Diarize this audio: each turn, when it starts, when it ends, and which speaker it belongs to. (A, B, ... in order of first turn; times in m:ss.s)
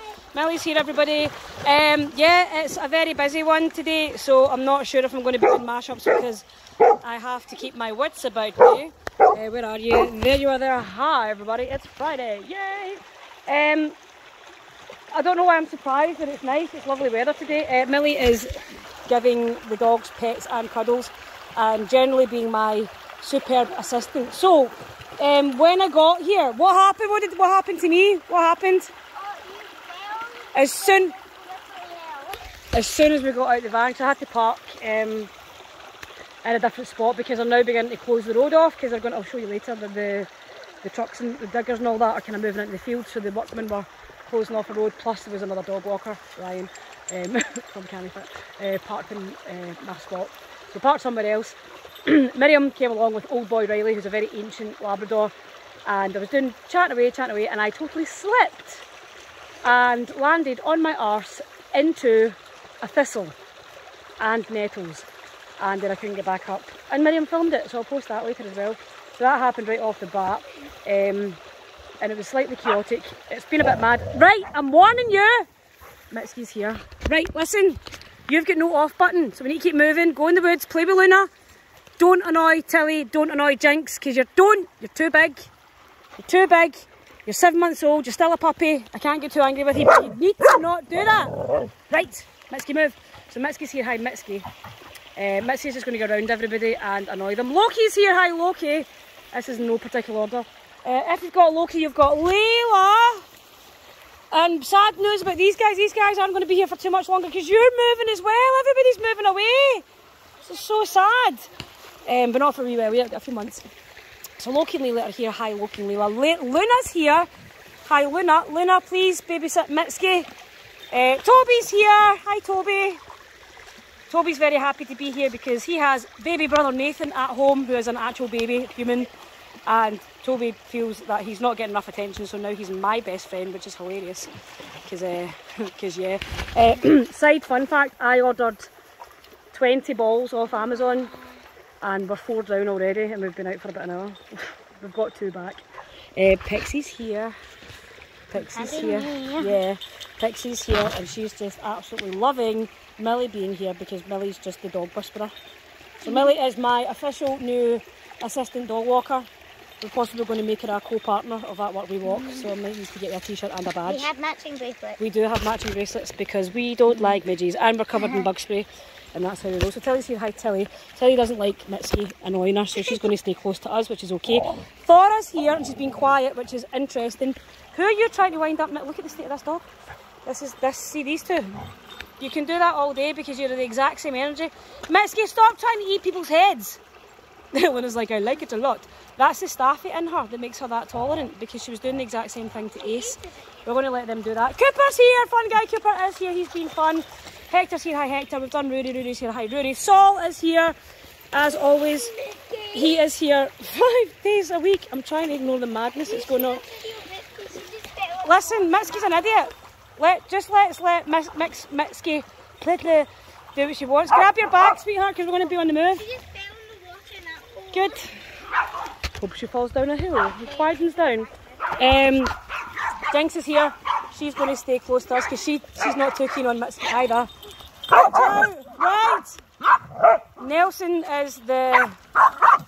0:00.3-0:06.4 A
0:07.0-0:14.0 A
0:15.1-0:18.5 A
0:19.0-0:28.9 A
0:29.2-0:32.4 B
0:30.5-0:31.2 A
0:32.7-0:35.3 A
0:36.4-0:40.3 A
0:40.8-0:55.3 A
0:55.9-0:58.8 A
0:59.6-1:03.4 A
1:04.2-1:05.1 A
1:05.6-1:11.4 A
1:12.0-1:15.5 A
1:16.1-1:21.3 A
1:22.0-1:25.5 A
1:26.2-1:34.4 A
1:35.2-1:43.2 A
1:44.3-1:49.8 A
1:50.4-1:51.5 A
1:52.0-1:53.6 A
1:54.4-1:57.3 A
1:57.8-2:00.3 A
2:00.9-2:03.0 A
2:04.1-2:09.1 A
2:09.7-2:14.3 A
2:14.8-2:18.7 A
2:19.5-2:21.2 A
2:21.8-2:25.6 A
2:26.2-2:27.3 A
2:28.3-2:35.3 A
2:28.5-2:29.6 B
2:36.0-2:39.3 A
2:39.8-2:44.1 A
2:43.9-2:45.0 B
2:45.0-2:59.7 A
3:00.2-3:01.7 A
3:02.2-3:06.8 A
3:07.5-3:20.8 A
3:21.3-3:22.2 A
3:22.1-3:22.8 B
3:22.7-3:26.7 A
3:26.1-3:29.2 B
3:28.2-3:36.1 A
3:36.1-3:38.0 B
3:37.7-3:38.2 A
3:39.2-3:42.3 A
3:43.1-3:47.3 A
3:47.9-3:49.4 A
3:50.4-3:52.0 A